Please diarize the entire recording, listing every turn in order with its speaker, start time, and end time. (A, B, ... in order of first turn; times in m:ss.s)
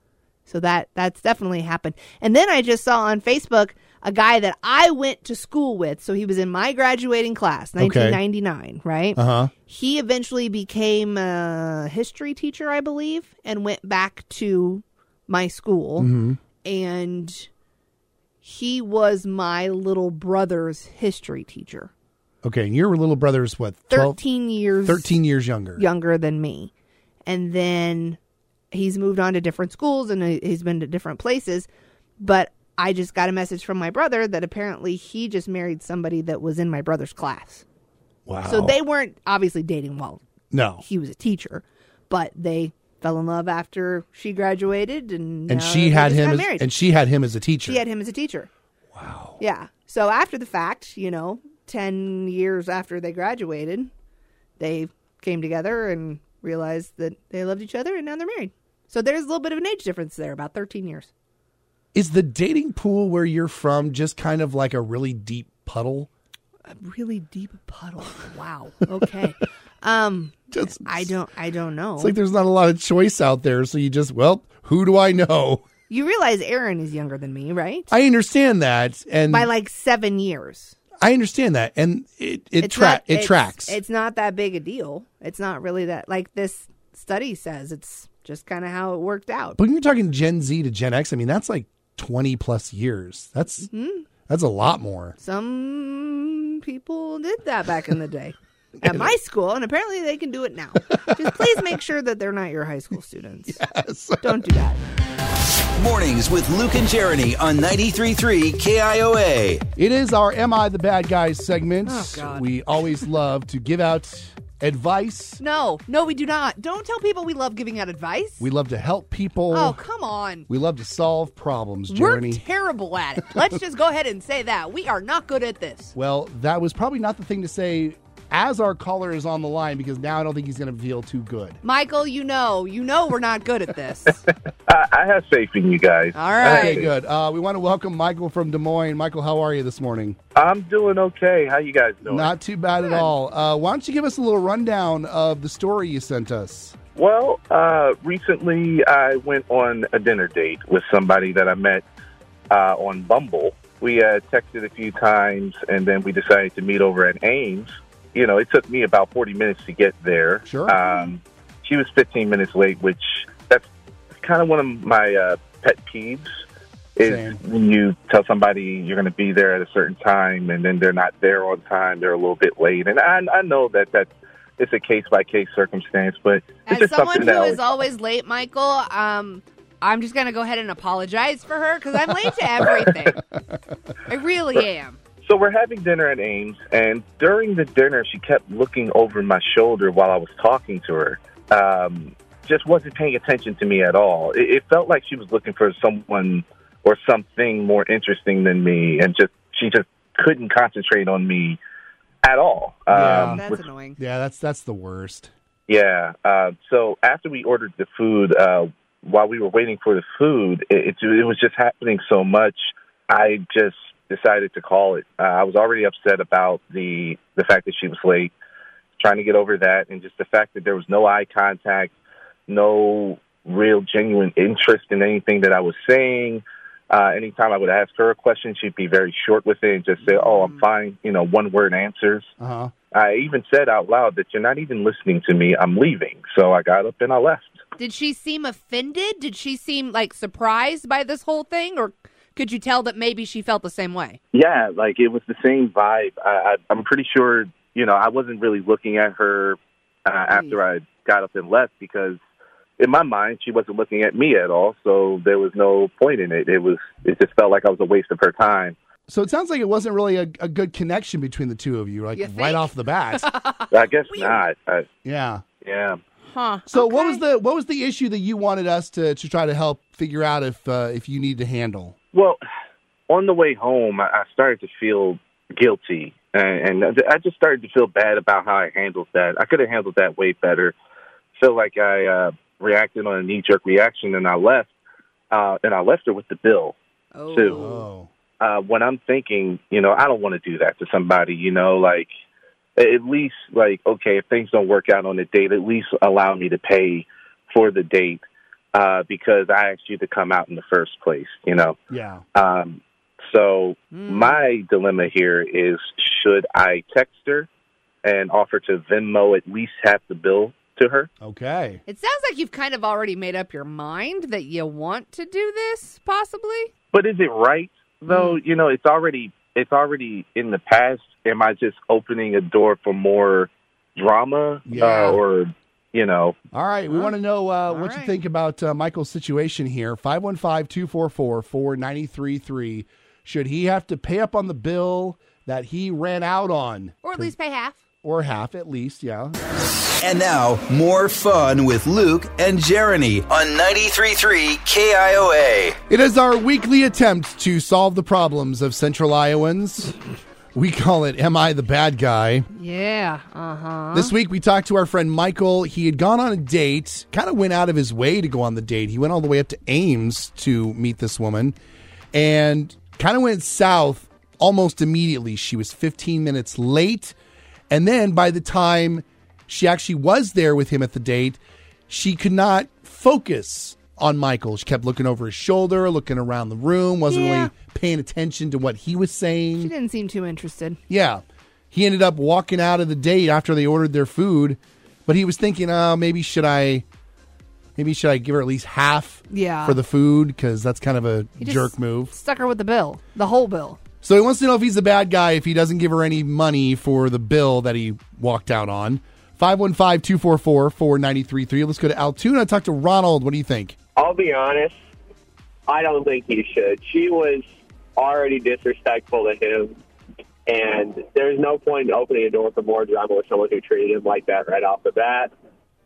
0:00.5-0:16.1 A
0:07.8-0:08.2 B
0:09.2-0:09.5 B
0:16.0-0:16.4 B
0:16.6-0:17.5 A
0:18.4-0:21.9 A
0:22.4-0:24.2 B
0:23.9-0:25.1 A
0:24.8-0:25.8 B
0:25.8-0:26.7 A
0:27.2-0:28.2 A
0:28.7-0:31.7 A
0:32.2-0:37.6 A
0:38.2-0:38.8 B
0:38.5-0:40.2 A
0:40.5-0:40.8 B
0:40.8-0:46.7 A
0:45.5-0:47.8 B
0:47.7-0:48.5 A
0:48.9-0:49.4 B
0:49.4-0:53.9 A
0:54.6-1:01.1 A
1:01.9-1:06.1 B
1:06.7-1:12.1 A
1:10.5-1:11.1 B
1:12.0-1:15.6 B
1:15.9-1:17.9 A
1:17.9-1:19.5 B
1:19.3-1:20.8 A
1:21.0-1:23.8 B
1:22.6-1:29.6 A
1:29.6-1:33.7 B
1:33.7-1:34.0 A
1:34.3-1:35.2 B
1:35.2-1:43.6 A
1:43.5-1:44.4 B
1:44.2-1:44.8 A
1:45.8-1:49.6 C
1:49.8-1:55.4 B
1:51.8-1:52.4 A
1:55.4-1:58.4 A
1:58.4-1:59.8 B
1:59.5-2:00.4 A
2:00.5-2:02.4 B
2:01.9-2:06.0 A
2:06.0-2:11.6 B
2:11.6-2:14.2 A
2:14.7-2:16.9 D
2:16.1-2:16.8 A
2:16.4-2:20.2 B
2:20.4-2:22.3 D
2:22.0-2:26.8 B
2:27.0-2:31.8 D
2:32.5-2:43.7 D
2:40.4-2:40.8 B
2:40.8-2:41.1 A
2:44.2-2:46.3 D
2:47.0-2:57.6 D
2:47.0-2:47.4 B
2:56.7-3:03.2 A
3:04.1-3:05.0 A
3:05.2-3:21.6 D
3:22.2-3:23.6 D
3:22.9-3:23.4 B
3:23.3-3:24.0 A
3:24.0-3:25.3 B
3:25.7-3:38.3 D
3:39.0-3:41.9 D
3:42.5-3:52.3 D
3:50.0-3:50.6 A
3:52.4-3:52.7 B
3:52.9-3:57.6 D
3:57.8-4:04.2 A
4:04.3-4:12.2 D
4:10.3-4:10.6 A
4:12.8-4:18.8 D
4:19.1-4:23.3 B
4:22.2-4:24.4 A
4:23.7-4:24.9 D
4:25.0-4:25.4 B
4:25.6-4:26.0 D
4:26.3-4:27.2 A
4:26.7-4:32.0 B
4:32.1-4:32.4 D
4:33.1-4:40.7 D
4:41.4-4:44.7 D
4:45.3-4:46.8 D
4:47.1-4:47.8 A
4:47.3-4:47.6 D
4:47.5-4:48.1 B
4:48.4-4:52.1 D
4:52.8-5:01.8 D
5:01.9-5:02.2 B
5:02.3-5:07.5 D
5:03.9-5:04.4 A
5:08.0-5:11.1 D
5:11.2-5:11.8 B
5:11.9-5:16.7 A
5:16.9-5:26.4 D
5:18.1-5:18.4 A
5:24.7-5:25.2 B
5:24.8-5:25.2 A
5:26.5-5:37.3 B
5:27.7-5:28.1 A
5:37.0-5:37.8 A
5:38.0-5:39.4 B
5:40.0-5:45.8 C
5:45.9-5:49.9 B
5:50.5-5:52.5 B
5:52.5-5:54.1 A
5:53.9-6:01.5 B
6:02.1-6:07.1 B
6:07.7-6:19.7 B
6:17.1-6:17.5 A
6:19.6-6:20.8 A
6:20.9-6:26.8 B
6:27.8-6:32.1 B
6:29.3-6:29.8 A
6:31.4-6:33.8 A
6:34.0-6:43.8 B
6:44.0-6:44.8 E
6:45.7-6:49.8 E
6:50.5-6:55.3 E